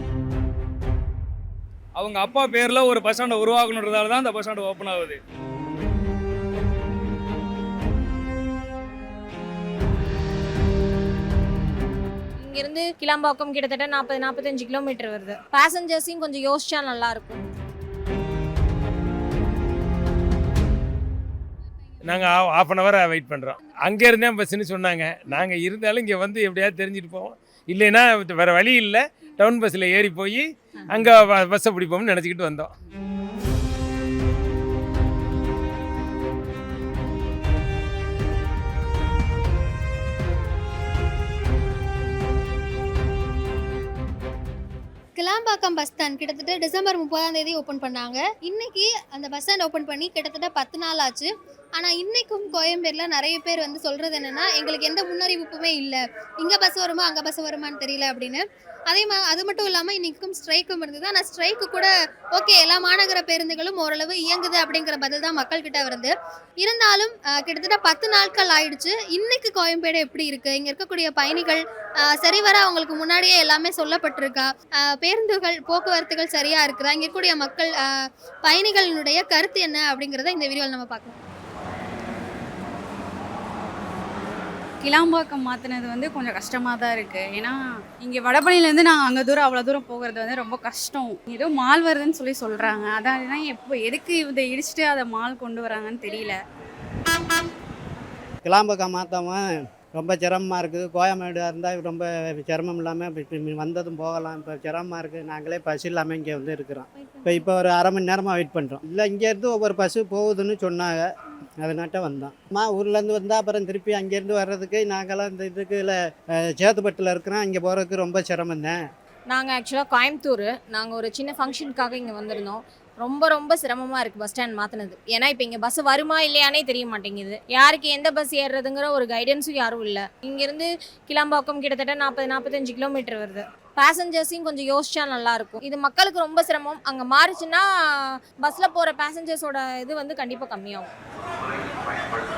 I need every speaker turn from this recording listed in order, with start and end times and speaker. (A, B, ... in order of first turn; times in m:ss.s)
0:02.0-0:05.2 A
0:12.4-0:17.4 B
0:22.0-0:32.7 C
0:45.2-1:17.9 D
1:18.4-1:21.2 D
1:24.8-1:36.4 E
1:38.4-1:51.0 F
1:51.6-1:56.0 F
1:56.6-1:58.8 F
1:59.3-2:20.9 B